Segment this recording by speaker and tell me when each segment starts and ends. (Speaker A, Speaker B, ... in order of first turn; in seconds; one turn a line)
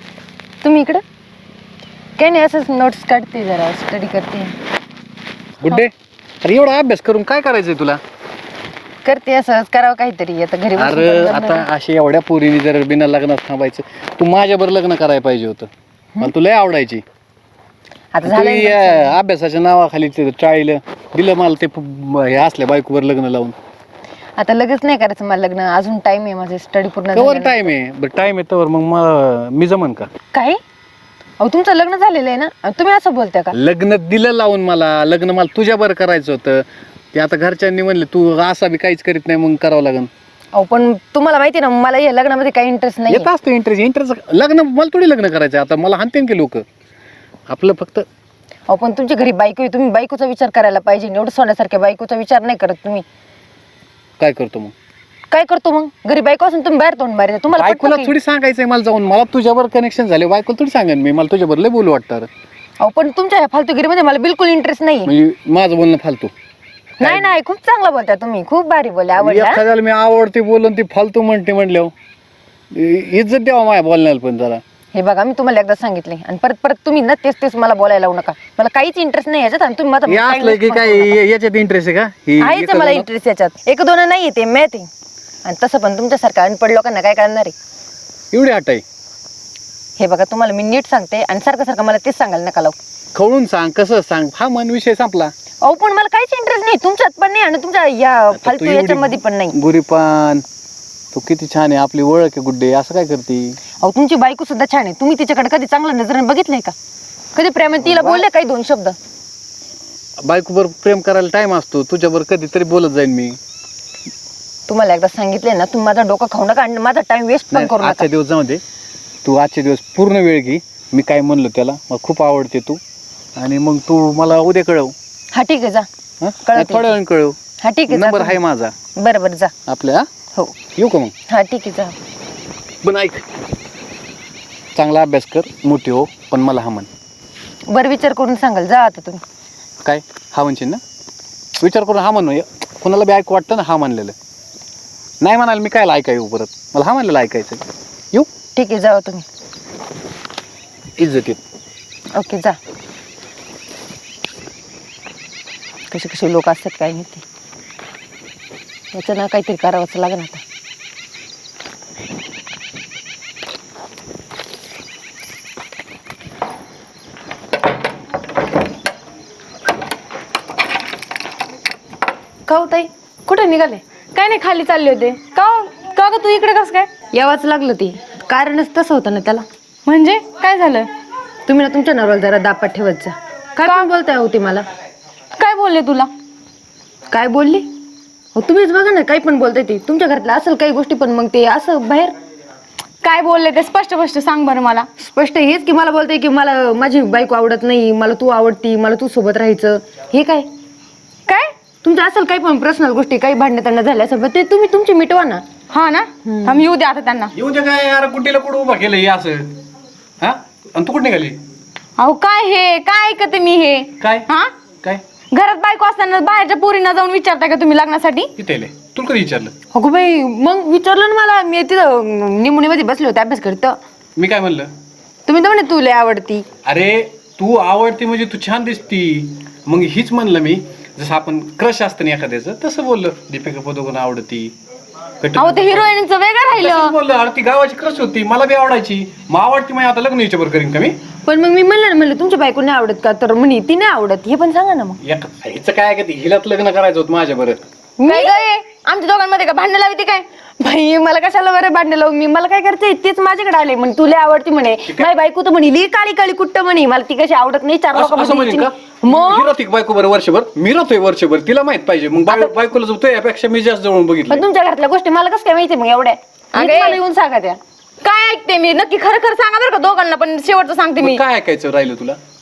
Speaker A: 0.6-1.0
Speaker A: 2.2-4.5
Speaker B: 5.6-5.9
Speaker B: 6.4-8.0
Speaker A: 9.0-11.7
Speaker B: 10.8-17.0
Speaker A: 18.1-19.2
Speaker B: 18.2-23.5
Speaker A: 24.4-27.6
Speaker B: 27.1-30.1
Speaker A: 30.3-30.6
Speaker A: 31.4-33.5
Speaker B: 33.5-40.1
Speaker A: 40.5-43.3
Speaker B: 43.1-46.6
Speaker B: 47.5-48.1
Speaker A: 48.7-53.0
Speaker B: 54.2-54.7
Speaker A: 55.3-58.1
Speaker B: 57.6-62.3
Speaker A: 62.8-65.1
Speaker B: 65.0-66.3
Speaker A: 67.0-69.6
Speaker B: 67.0-67.2
Speaker B: 69.2-71.9
Speaker B: 72.7-74.6
Speaker A: 74.9-81.2
Speaker B: 80.1-83.1
Speaker A: 82.4-84.9
Speaker A: 85.4-87.5
Speaker B: 88.3-88.8
Speaker A: 90.0-92.8
Speaker B: 93.1-95.3
Speaker A: 95.6-99.5
Speaker B: 98.3-100.4
Speaker B: 101.1-103.6
Speaker A: 103.8-106.7
Speaker A: 107.3-109.0
Speaker B: 107.8-108.2
Speaker B: 110.2-113.4
Speaker A: 114.7-118.1
Speaker B: 117.5-118.6
Speaker B: 119.2-122.8
Speaker B: 123.3-124.9
Speaker A: 125.3-125.9
Speaker B: 126.2-127.4
Speaker A: 126.4-127.0
Speaker A: 127.6-128.4
Speaker B: 127.9-128.7
Speaker A: 129.0-129.5
Speaker B: 129.7-130.1
Speaker B: 130.7-131.1
Speaker A: 131.3-131.9
Speaker B: 132.8-133.2
Speaker B: 134.7-136.9
Speaker A: 137.7-139.2
Speaker B: 139.8-140.8
Speaker B: 141.6-144.2
Speaker B: 145.2-148.3
Speaker A: 148.6-149.2
Speaker B: 151.0-151.4
Speaker A: 152.1-152.6
Speaker A: 155.9-157.2
Speaker A: 158.9-160.4
Speaker A: 172.5-173.8
Speaker C: 174.1-176.9
Speaker A: 177.1-179.4
Speaker C: 179.8-180.9
Speaker A: 181.4-184.6
Speaker C: 185.4-186.1
Speaker A: 187.1-187.7
Speaker A: 188.3-192.1
Speaker C: 193.0-194.9
Speaker A: 195.0-200.5
Speaker C: 201.3-201.5
Speaker A: 201.8-205.4
Speaker C: 205.7-207.3
Speaker A: 206.2-206.6
Speaker B: 207.3-209.6
Speaker B: 210.2-211.4
Speaker C: 212.0-214.5
Speaker B: 214.0-214.3
Speaker C: 215.3-218.3
Speaker B: 218.3-219.5
Speaker A: 219.7-223.8
Speaker B: 224.2-224.7
Speaker A: 225.3-226.4
Speaker B: 226.6-234.5
Speaker B: 235.2-235.9
Speaker C: 235.3-236.9
Speaker B: 236.5-241.0
Speaker A: 241.2-245.0
Speaker B: 245.0-247.6
Speaker A: 248.0-248.4
Speaker C: 248.0-250.2
Speaker A: 250.6-259.5
Speaker B: 257.9-264.4
Speaker A: 262.3-262.5
Speaker A: 264.3-267.6
Speaker C: 266.5-267.0
Speaker C: 268.0-271.2
Speaker B: 271.0-272.2